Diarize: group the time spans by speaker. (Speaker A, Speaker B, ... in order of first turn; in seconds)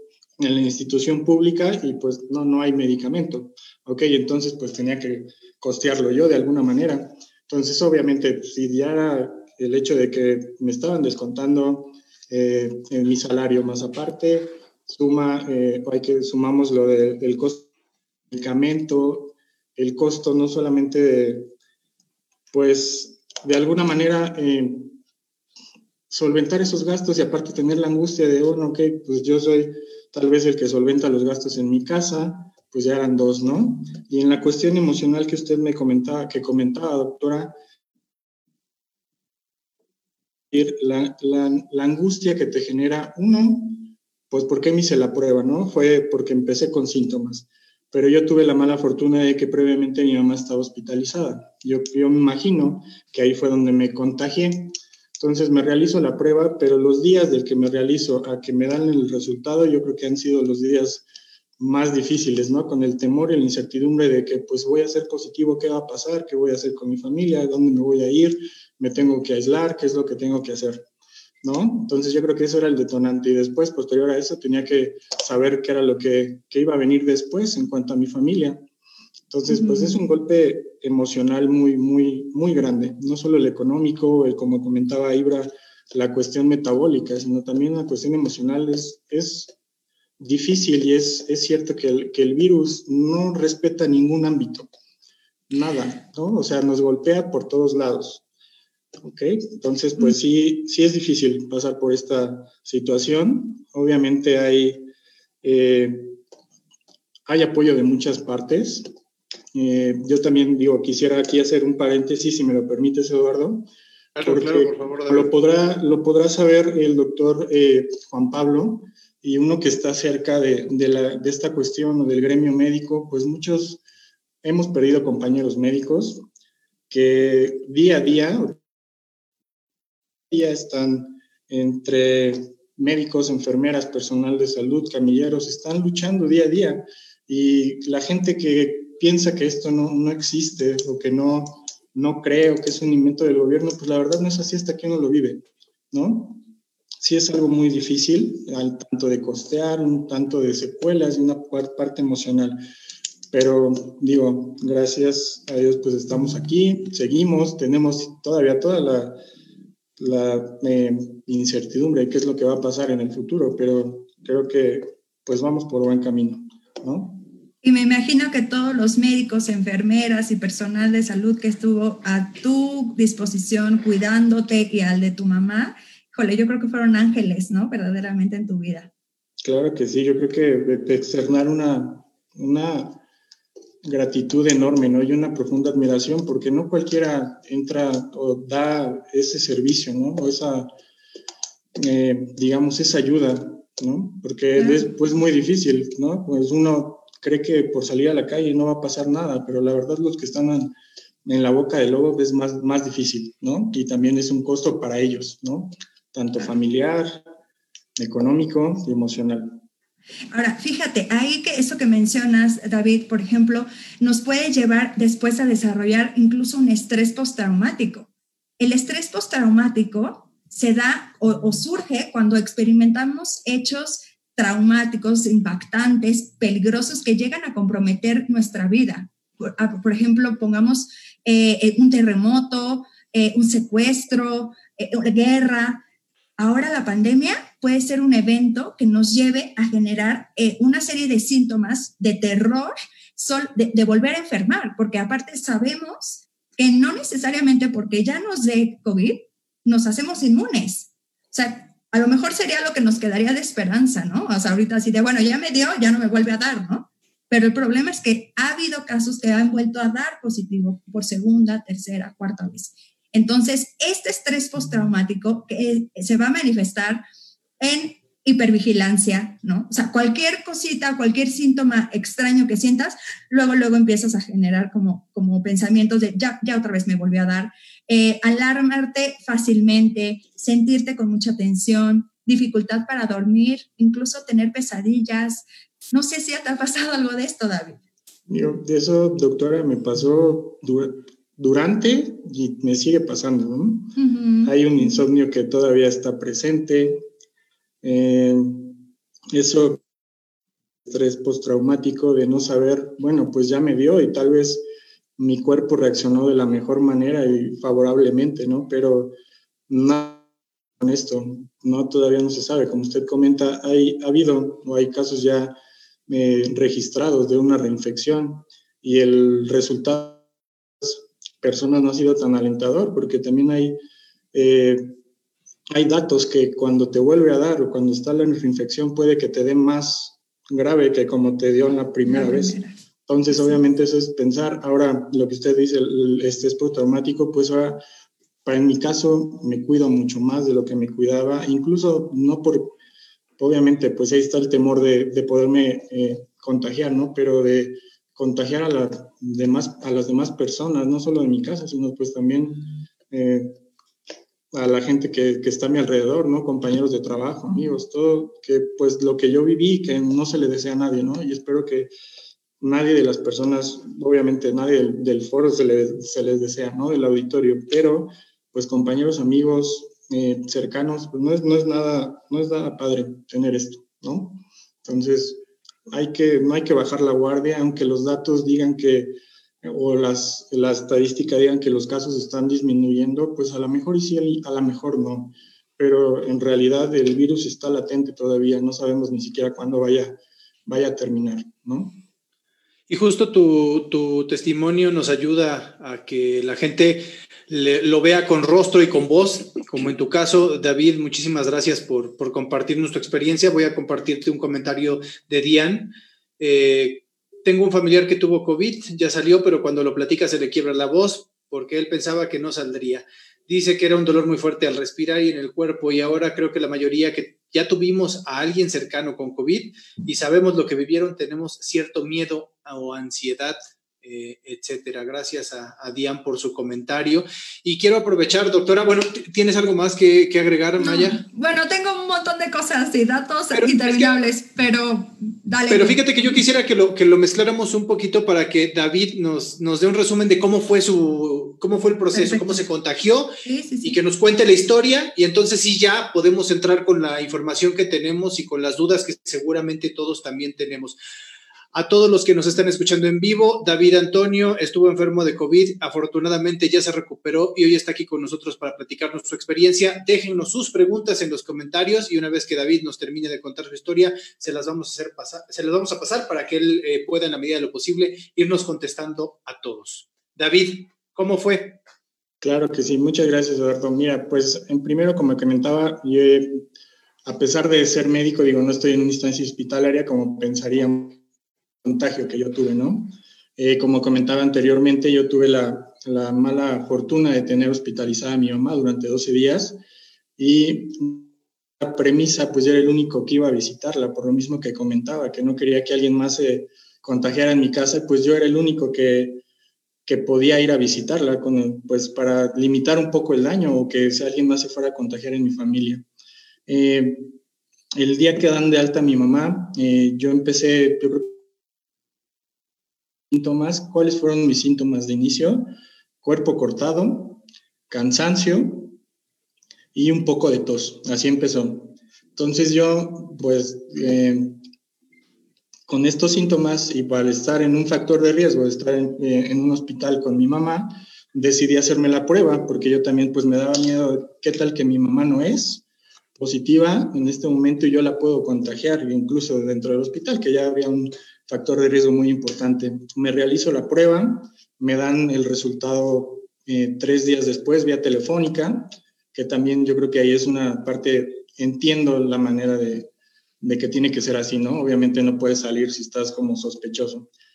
Speaker A: 0.4-17.7, 18.3-21.5, 22.5-25.0, 26.1-37.5, 40.5-61.0, 61.6-70.8, 71.4-78.6, 79.3-89.5, 90.2-94.7, 95.5-98.2, 99.0-104.9, 105.4-106.2, 107.3-108.9, 109.5-113.7, 114.2-123.8, 124.4-126.2, 126.9-128.6, 130.3-146.4, 147.0-152.6, 153.3-159.2, 160.0-167.2, 179.4-183.0, 183.8-190.7, 191.8-207.2, 208.0-209.6, 288.3-297.0, 297.8-299.8, 300.9-304.6, 305.2-309.1, 309.7-310.3, 310.8-315.6, 316.1-320.2, 320.8-323.8, 324.3-325.0, 325.7-337.8, 338.4-342.8, 343.4-353.5, 354.5-361.9, 362.6-392.0, 472.4-476.6, 477.3-481.2, 481.8-489.8, 490.4-499.4, 500.1-506.1, 506.7-507.4, 507.9-511.4, 513.3-515.7, 516.2-519.0, 519.9-524.6, 525.9-535.8, 536.4-557.3
Speaker B: 79.5-80.0, 167.6-178.9, 194.6-194.9, 210.3-235.8, 236.4-267.0, 267.6-287.8, 294.0-295.1, 332.1-332.8, 333.3-333.6, 430.8-436.1, 442.1-442.7, 443.4-444.0
Speaker C: 114.2-115.3, 392.9-431.2, 433.5-434.1, 435.7-451.0, 451.7-471.8